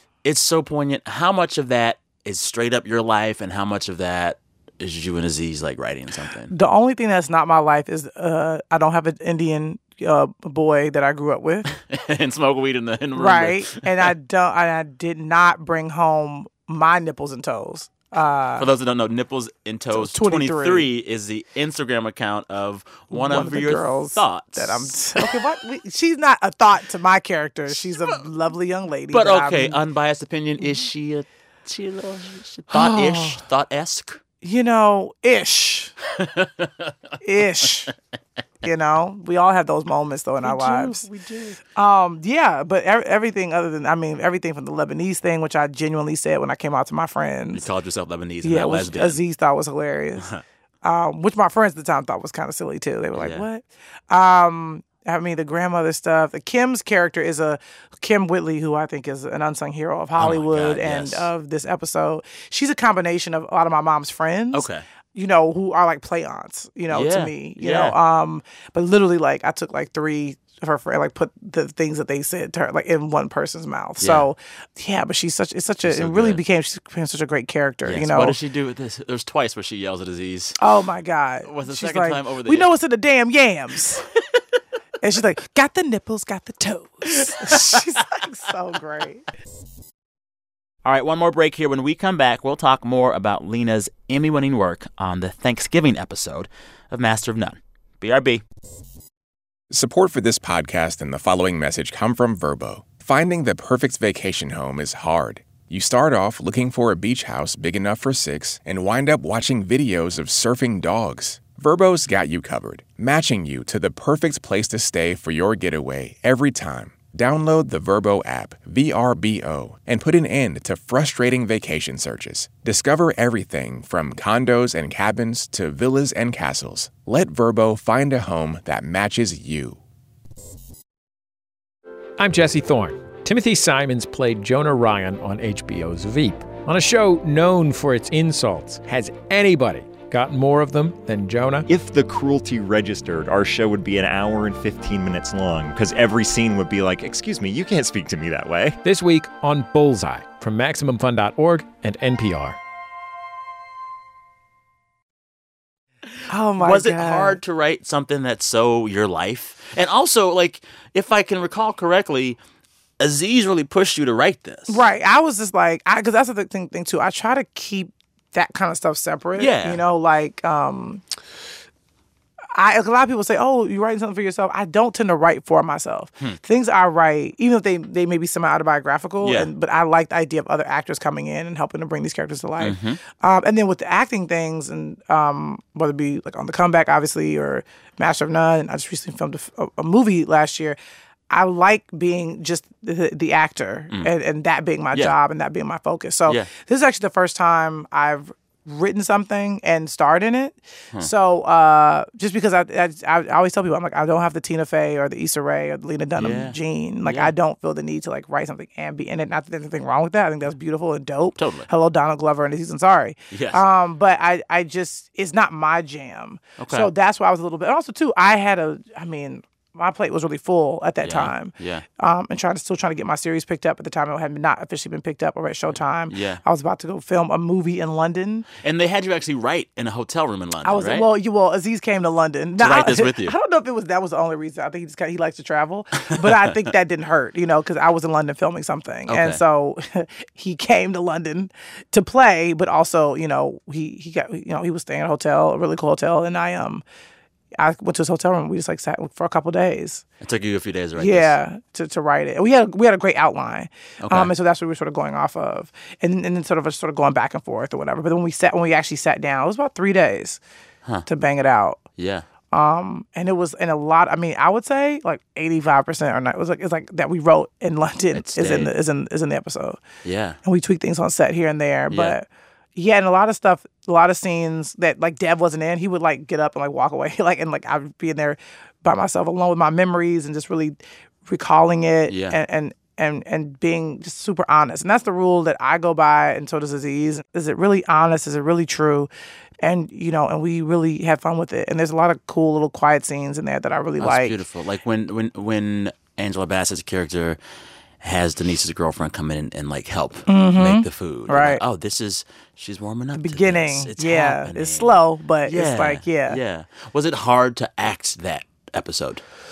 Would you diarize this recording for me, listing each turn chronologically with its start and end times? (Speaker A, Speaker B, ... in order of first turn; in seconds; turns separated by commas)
Speaker A: 0.2-6.5, Speaker B: 6.5-11.7, Speaker A: 11.7-14.1, Speaker B: 13.1-18.7, Speaker A: 18.6-25.4, Speaker B: 19.9-20.9, Speaker B: 23.1-29.8, Speaker A: 27.8-28.2, Speaker A: 29.1-34.2, Speaker B: 32.7-33.4, Speaker B: 34.4-35.9, Speaker A: 36.1-36.9, Speaker B: 37.2-37.9, Speaker A: 37.6-37.9, Speaker B: 38.6-41.0, Speaker A: 40.4-41.6, Speaker B: 41.7-47.6, Speaker A: 47.5-49.2, Speaker B: 48.4-50.3, Speaker B: 50.8-78.4, Speaker A: 53.1-53.4, Speaker A: 60.2-61.3, Speaker A: 64.5-64.8, Speaker A: 66.9-68.0, Speaker A: 74.0-74.3, Speaker A: 75.8-76.4, Speaker A: 77.8-80.6, Speaker B: 80.6-84.1, Speaker A: 81.4-82.7, Speaker B: 85.0-89.2, Speaker A: 87.2-88.0, Speaker A: 90.8-98.4, Speaker C: 99.7-129.8, Speaker D: 132.2-141.7, Speaker E: 141.7-148.8, Speaker D: 148.8-152.6, Speaker B: 156.3-157.4, Speaker A: 156.6-162.4, Speaker A: 163.0-164.8, Speaker B: 164.7-171.0, Speaker A: 169.4-169.8, Speaker B: 172.5-190.8, Speaker A: 179.2-179.5, Speaker A: 182.6-183.0, Speaker B: 191.3-228.5, Speaker A: 206.2-207.3, Speaker A: 211.4-211.7, Speaker A: 213.3-213.6, Speaker A: 216.6-216.9, Speaker A: 221.0-221.8, Speaker A: 226.1-226.4, Speaker A: 228.6-231.1, Speaker B: 230.6-246.8, Speaker A: 232.6-233.3, Speaker A: 236.2-236.5, Speaker A: 239.1-239.4, Speaker B: 247.6-250.0, Speaker A: 250.2-251.4, Speaker B: 251.0-260.4, Speaker A: 254.0-254.3, Speaker B: 261.1-261.8, Speaker A: 262.0-262.2, Speaker B: 262.5-269.8, Speaker A: 268.1-268.7, Speaker A: 270.0-270.4, Speaker B: 270.4-289.1, Speaker A: 271.9-272.1, Speaker A: 282.1-282.4, Speaker B: 289.6-294.4, Speaker A: 294.0-297.4, Speaker A: 298.0-309.2, Speaker B: 300.3-301.6, Speaker B: 303.1-306.4